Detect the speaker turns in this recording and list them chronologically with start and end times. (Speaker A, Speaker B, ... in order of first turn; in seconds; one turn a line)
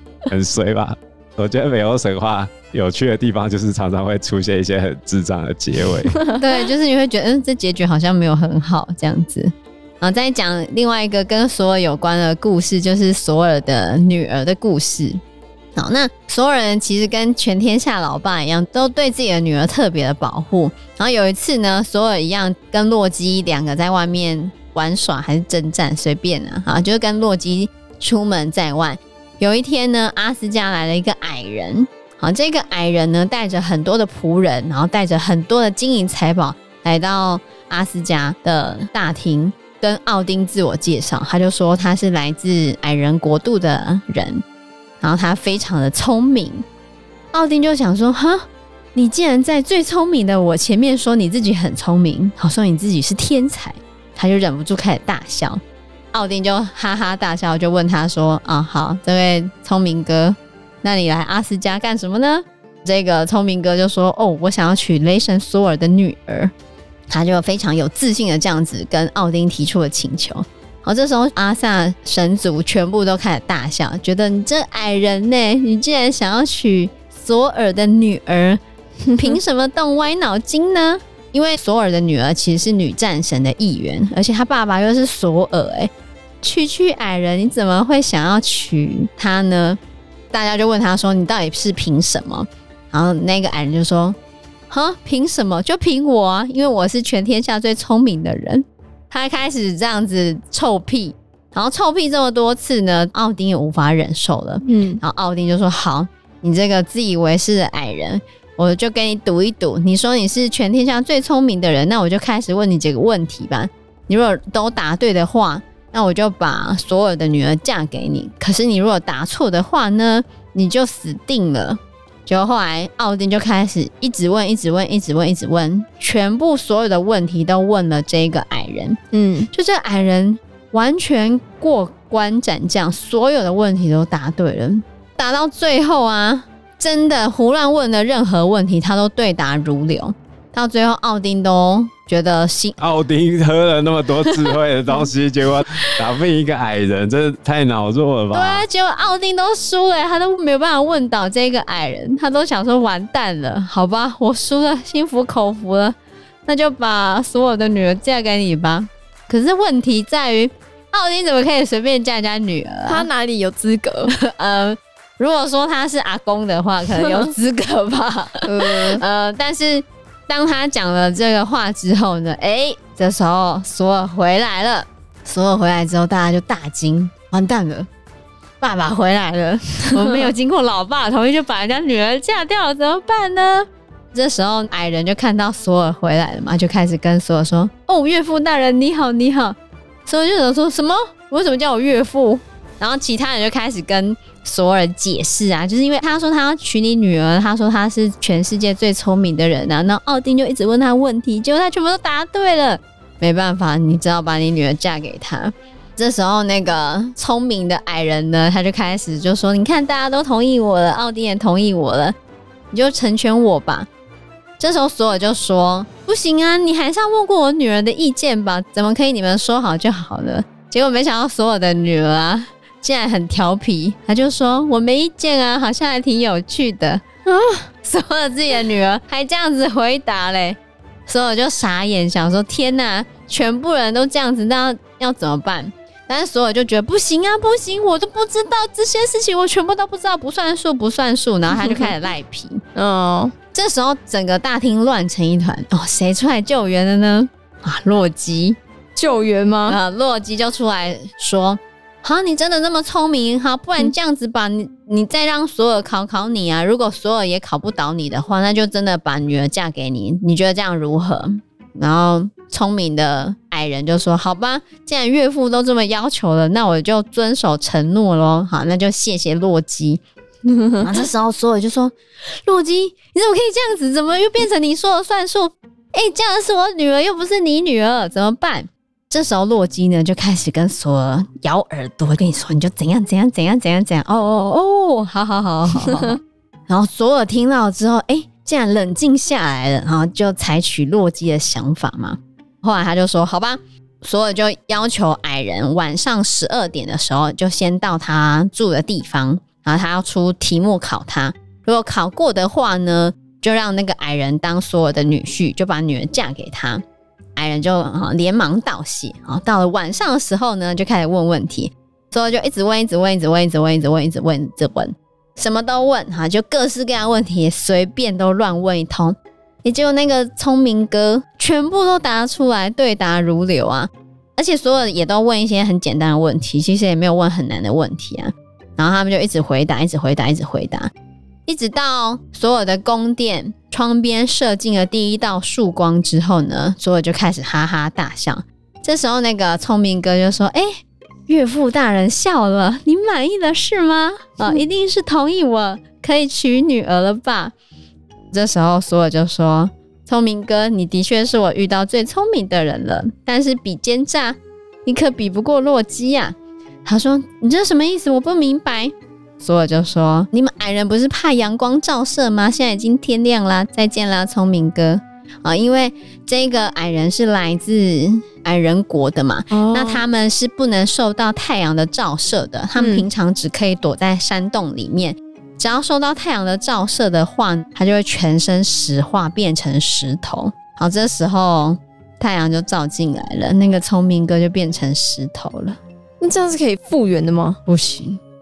Speaker A: 0.3-6.2
Speaker B: 6.1-6.4
Speaker C: 6.4-15.2
Speaker C: 15.8-44.4
Speaker C: 45.0-46.6
Speaker C: 47.3-55.6
Speaker C: 56.1-66.5
Speaker C: 67.1-78.6
Speaker C: 79.2-85.9
Speaker C: 86.4-89.8
Speaker C: 90.3-94.2
Speaker C: 94.7-129.0
Speaker B: 104.6-105.0
Speaker B: 129.1-129.5
Speaker C: 129.5-142.8
Speaker A: 142.8-148.7
Speaker C: 144.3-145.0
Speaker C: 148.3-163.1
Speaker B: 162.9-164.1
Speaker C: 164.1-177.9
Speaker B: 167.0-167.2
Speaker B: 168.4-169.0
Speaker C: 178.6-212.2
Speaker C: 212.7-213.9
Speaker C: 214.6-227.0
Speaker B: 227.3-227.7
Speaker C: 227.8-242.6
Speaker B: 241.5-241.9
Speaker B: 242.8-243.3
Speaker C: 243.5-248.6
Speaker B: 249.0-249.8
Speaker C: 249.7-270.0
Speaker B: 270.6-270.8
Speaker C: 270.8-306.8
Speaker C: 307.4-330.9
Speaker C: 331.5-340.7
Speaker C: 341.3-347.5
Speaker C: 348.3-385.8
Speaker B: 369.5-370.0
Speaker B: 372.8-373.1
Speaker B: 386.2-387.6
Speaker C: 387.7-388.2